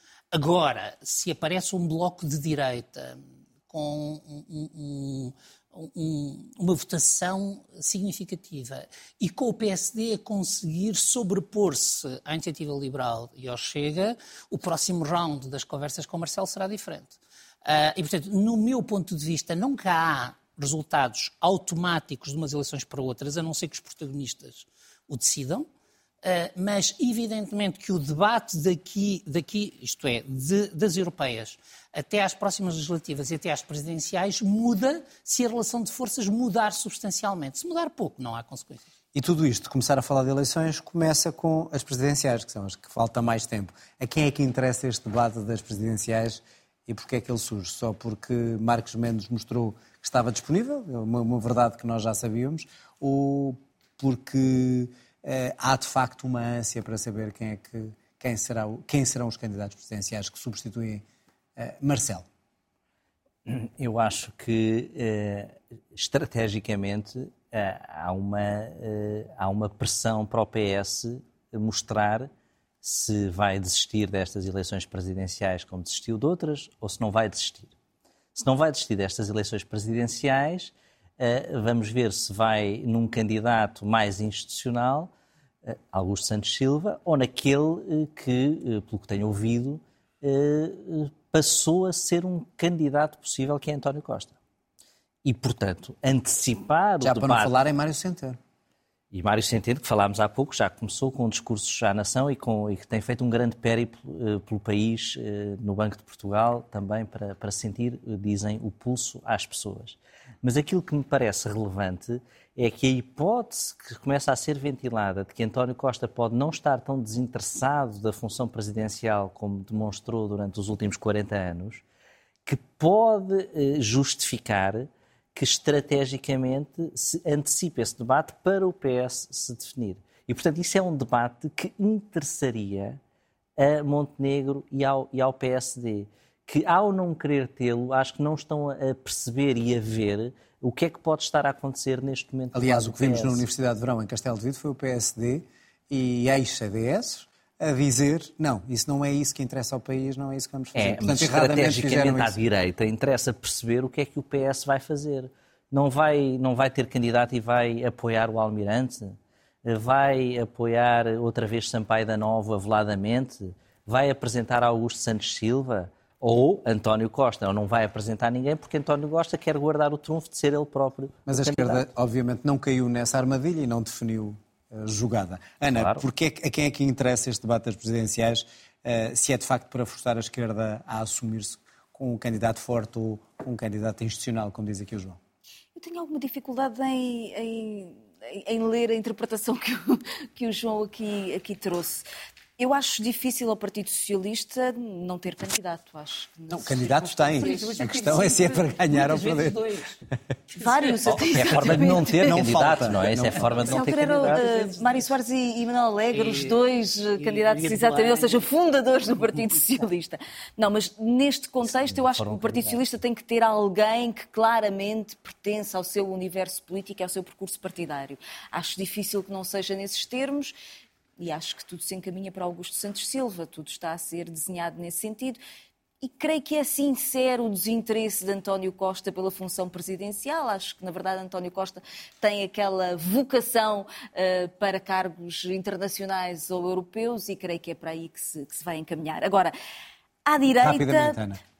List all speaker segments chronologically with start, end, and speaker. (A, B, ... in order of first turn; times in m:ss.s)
0:00.3-0:25.7 A
0:26.2-0:38.9 A
0:39.1-1:01.0 B
1:01.6-1:02.2 B
1:03.4-1:12.3 C
1:12.8-1:17.7 C
1:18.4-1:25.1 C
1:25.6-1:34.4 C
1:35.2-1:37.5 C
1:37.0-1:38.4 B
1:39.1-2:01.8 C
2:02.4-2:13.0 C
2:13.6-2:23.4 C
2:22.5-2:32.4 B
2:30.7-2:51.8 C
2:51.3-3:05.2 B
2:55.7-2:56.0 C
3:05.8-3:12.0 D
3:12.6-3:18.4 D
3:16.5-3:19.6 B
3:17.3-3:20.0 A
3:20.5-3:21.6 A
3:20.6-3:22.5 D
3:21.0-3:24.4 C
3:21.9-3:23.5 B
3:23.4-3:25.1 A
3:23.6-3:40.5 D
3:26.1-3:26.6 A
3:27.1-3:28.4 A
3:31.6-3:32.8 C
3:41.2-3:45.4 D
3:46.0-3:59.5 D
4:00.2-4:01.2 D
4:00.6-4:01.4 B